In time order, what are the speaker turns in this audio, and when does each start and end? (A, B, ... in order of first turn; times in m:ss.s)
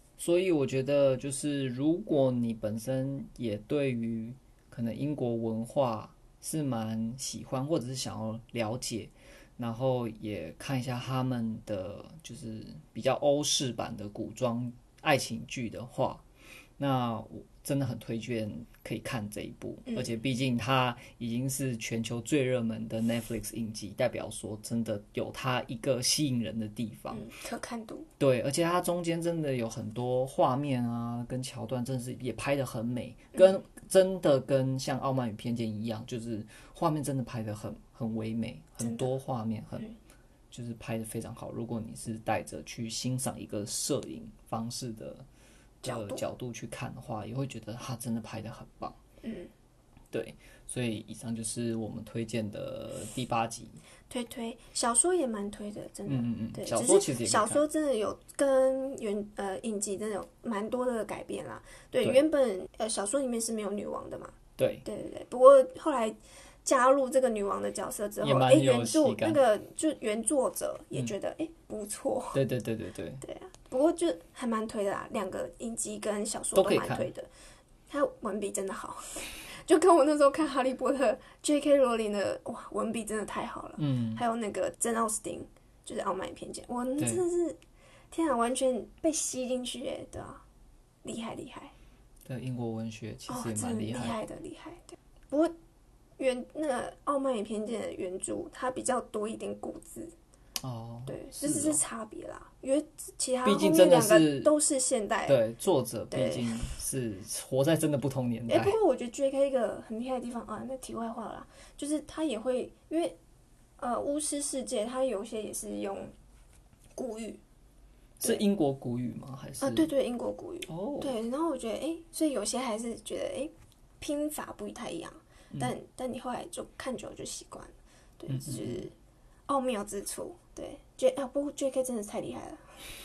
0:00.2-0:16.2 A
0:16.8-0:27.3 A
0:19.9-0:20.1 B
0:27.1-0:28.1 B
0:28.2-0:39.9 A
0:38.8-0:39.1 B
0:40.5-0:45.2 A
0:45.8-0:49.0 A
0:45.8-0:46.2 B
0:49.2-0:49.5 B
0:50.1-0:53.8 A
0:54.1-1:12.4 B
0:56.1-0:57.6 A
1:04.6-1:04.8 A
1:08.2-1:09.4 A
1:12.3-1:13.2 A
1:13.2-1:17.3 B
1:16.5-1:17.1 A
1:17.9-1:27.6 B
1:23.8-1:24.2 A
1:28.1-1:30.4 B
1:31.0-1:31.7 B
1:32.2-1:34.2 A
1:33.3-1:35.5 B
1:36.2-1:40.1 B
1:40.6-1:41.8 A
1:41.0-1:45.4 B
1:43.4-1:44.5 A
1:45.2-1:48.8 A
1:46.1-1:46.5 B
1:48.5-1:53.2 B
1:53.8-1:56.1 B
1:57.0-1:57.4 B
1:58.2-1:59.9 A
1:59.6-2:08.9 B
2:00.7-2:01.2 A
2:08.3-2:08.8 A
2:09.5-2:12.8 B